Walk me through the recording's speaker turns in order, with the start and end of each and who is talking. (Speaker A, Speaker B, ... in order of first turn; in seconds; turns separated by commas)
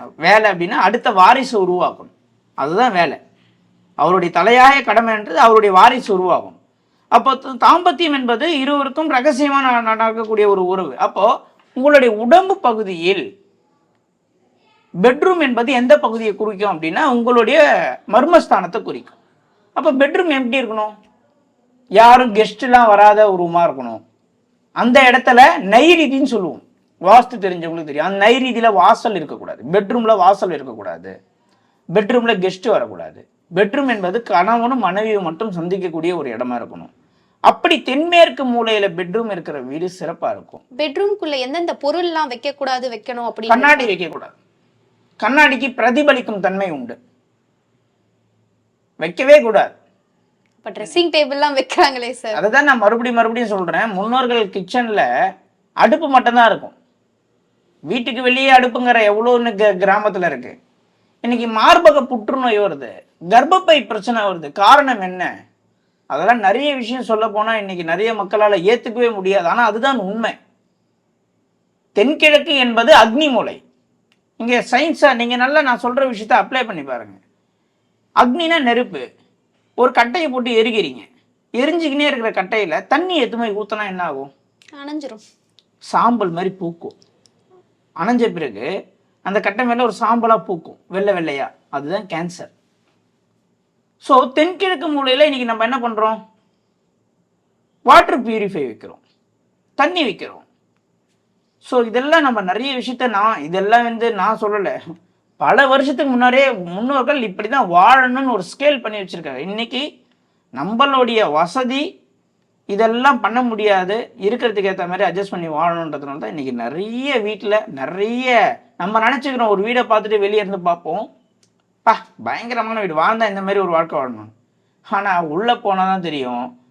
Speaker A: 0.2-3.2, Speaker A: 4.0-6.6, Speaker A: 7.2-11.3, Speaker A: 11.8-13.2, Speaker A: 15.0-19.2, Speaker A: 19.8-20.9, Speaker A: 22.0-24.0, Speaker A: 24.8-31.1, Speaker A: 31.9-36.9, Speaker A: 37.5-40.6, Speaker B: 40.8-43.9, Speaker A: 43.5-44.3, Speaker A: 45.2-47.0, Speaker A: 49.0-49.8, Speaker B: 50.6-52.4, Speaker A: 52.4-55.1, Speaker A: 55.8-56.7, Speaker A: 57.9-60.6, Speaker A: 61.2-65.3, Speaker A: 66.1-70.3, Speaker A: 72.0-73.6, Speaker A: 74.4-77.2, Speaker A: 78.2-79.0, Speaker A: 79.8-81.1, Speaker A: 81.6-84.3, Speaker B: 84.8-85.2, Speaker A: 85.9-86.9, Speaker A: 88.0-88.7, Speaker A: 89.2-92.5, Speaker A: 94.0-96.2, Speaker A: 97.9-99.0, Speaker A: 99.8-100.5, Speaker A: 101.6-104.7, Speaker A: 105.4-109.8, Speaker A: 110.6-111.8, Speaker A: 112.7-121.1, Speaker A: 121.8-124.3, Speaker A: 124.9-126.5